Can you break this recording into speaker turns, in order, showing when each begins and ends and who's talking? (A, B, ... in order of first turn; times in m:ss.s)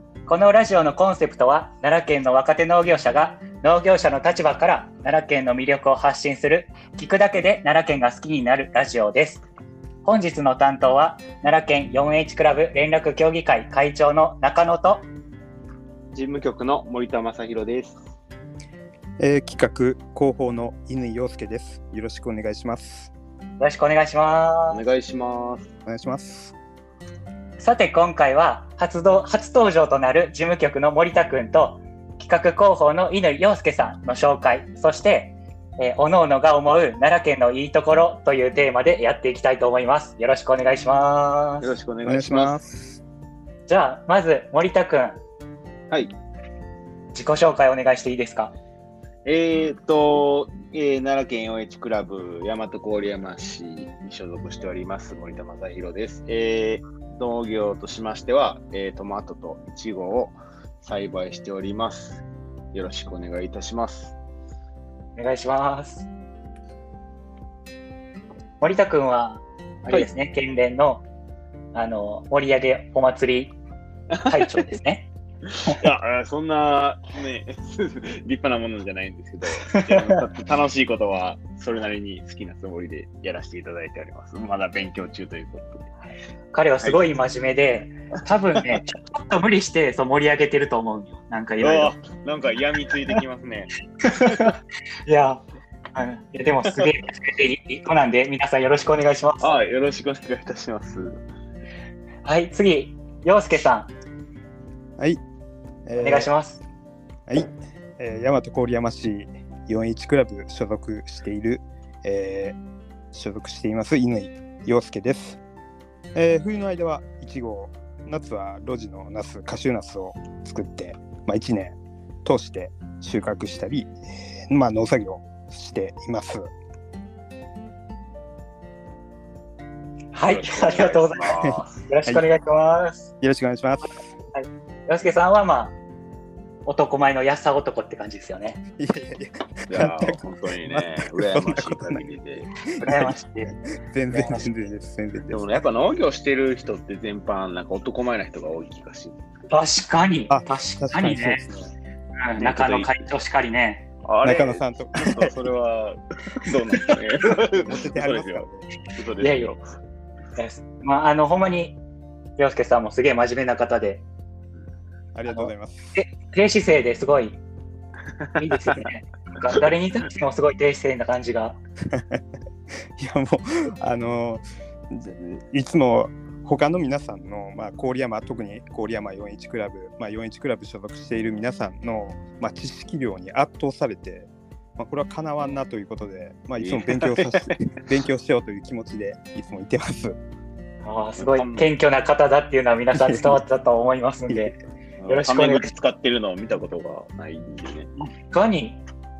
0:00.3-0:09.4 A
0:10.0-0:15.1 A
0:16.1-0:18.1 B
0:19.2-0:23.1 C
0:23.6-0:24.8 A
0:24.7-0:25.7 B
0:25.9-0:26.5 C
0:27.6-0:41.7 A
0:41.6-0:42.6 B
0:42.0-0:43.0 C
0:43.7-0:45.2 A
0:47.1-0:48.5 A
0:49.2-1:04.2 B
1:05.2-1:06.1 A
1:08.6-1:11.0 A
1:11.7-1:13.6 A
1:14.2-1:14.5 B
1:14.3-1:15.1 A
1:15.6-1:25.9 B
1:19.7-1:20.0 A
1:26.5-1:32.0 A
1:26.8-1:27.1 B
1:31.6-1:33.7 B
1:34.0-1:34.5 A
1:35.1-1:35.4 A
1:36.0-1:39.5 A
1:39.4-1:41.2 B
1:42.2-1:43.9 A
1:45.9-1:46.3 C
1:46.0-1:46.6 A
1:47.3-1:52.6 C
1:53.1-1:55.4 C
1:56.2-2:04.0 C
2:04.5-2:06.5 C
2:10.1-2:13.1 A
2:10.2-2:11.9 B
2:11.4-2:12.3 C
2:13.2-2:14.0 C
2:14.3-2:15.8 A
2:16.7-2:18.6 A
2:18.8-2:22.0 C
2:19.7-2:22.5 B
2:22.7-2:25.6 C
2:22.8-2:23.5 A
2:24.1-2:24.6 A
2:25.3-2:29.2 B
2:29.5-2:31.5 A
2:30.3-2:31.7 C
2:32.2-2:33.8 A
2:32.4-2:33.1 B
2:34.0-2:39.6 B
2:34.2-2:35.2 C
2:37.5-2:38.7 C
2:39.2-2:39.5 A
2:40.4-2:41.8 A
2:42.4-2:44.0 A
2:45.2-2:46.0 C
2:45.3-2:47.4 A
2:48.3-2:48.8 B
2:48.4-2:51.6 A
2:51.9-2:52.2 C
2:53.0-3:10.2 C
3:06.6-3:07.5 B
3:10.8-3:14.6 A
3:11.2-3:11.7 B
3:13.0-3:13.4 C
3:15.0-3:17.9 B
3:15.1-3:15.7 A
3:18.0-3:18.8 A